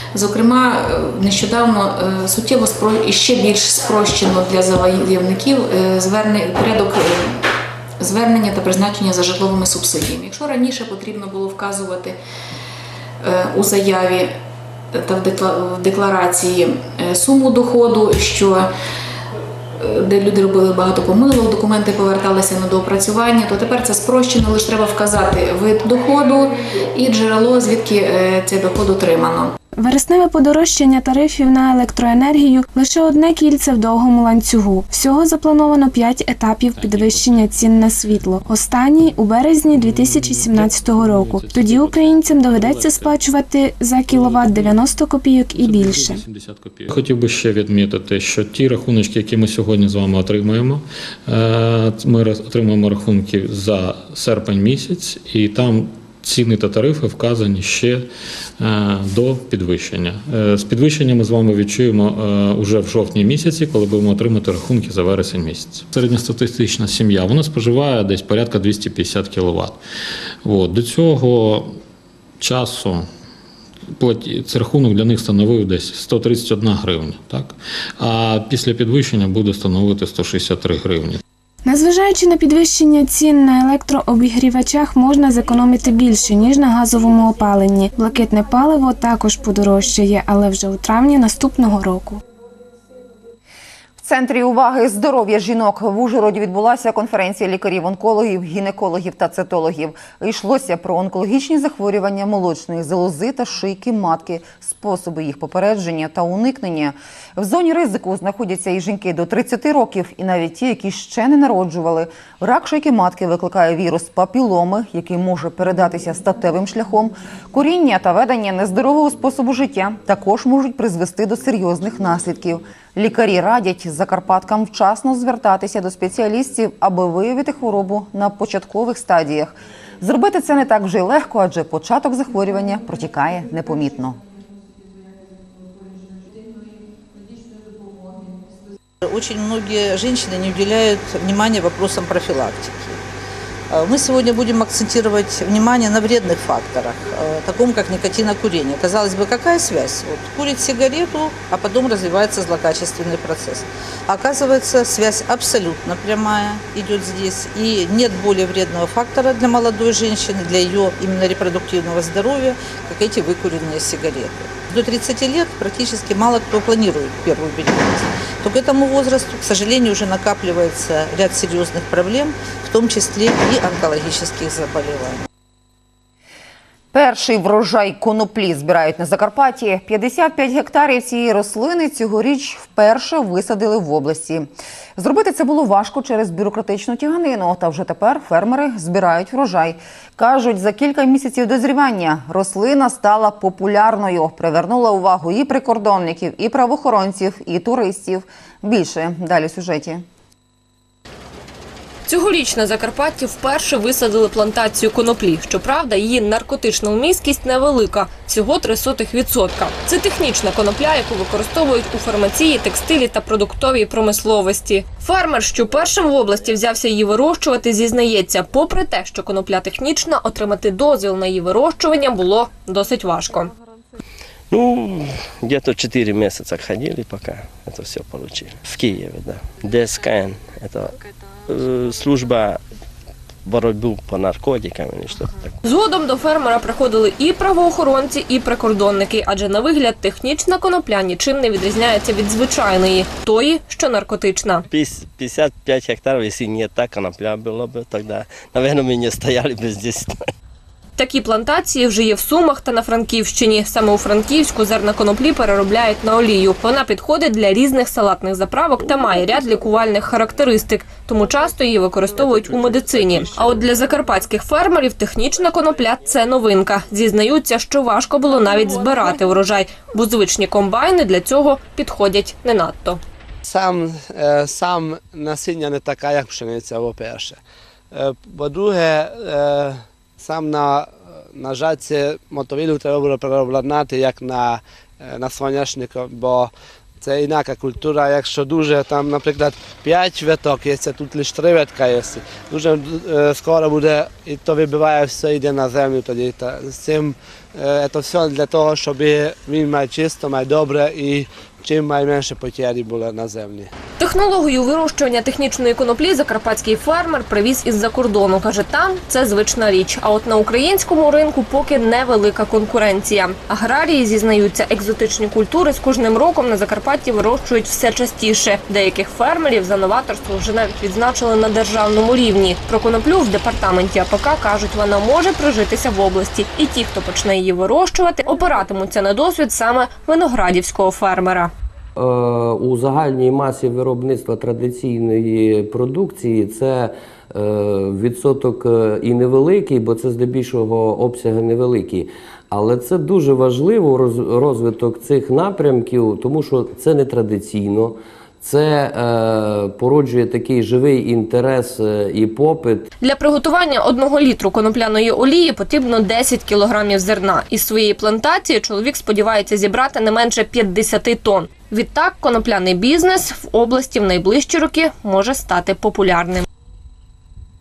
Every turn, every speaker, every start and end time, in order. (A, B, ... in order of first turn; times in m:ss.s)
0:00.1-0:07.4 A
0:08.0-0:12.2 A
0:13.2-0:14.3 A
0:14.9-0:18.7 A
0:19.8-0:29.5 A
0:29.8-0:46.2 B
0:36.8-0:37.5 C
0:39.7-0:43.2 C
0:44.1-0:44.8 C
0:45.6-0:58.0 C
0:58.6-1:09.8 C
1:10.4-1:11.7 C
1:12.4-1:13.0 C
1:14.0-1:21.2 C
1:21.6-1:32.2 B
1:34.0-2:14.2 D
2:19.0-2:23.0 E
2:23.7-2:55.2 E
2:56.9-3:20.0 D
3:22.0-3:43.5 F
3:35.7-3:36.5 G
3:44.5-3:52.6 G
3:53.4-3:55.5 G
3:55.6-4:04.6 F
4:04.7-4:10.3 G
4:11.0-4:33.0 F
4:33.4-4:37.4 H
4:37.9-5:03.7 H
5:04.0-5:31.5 F
5:32.0-5:52.8 I
5:53.0-6:06.5 F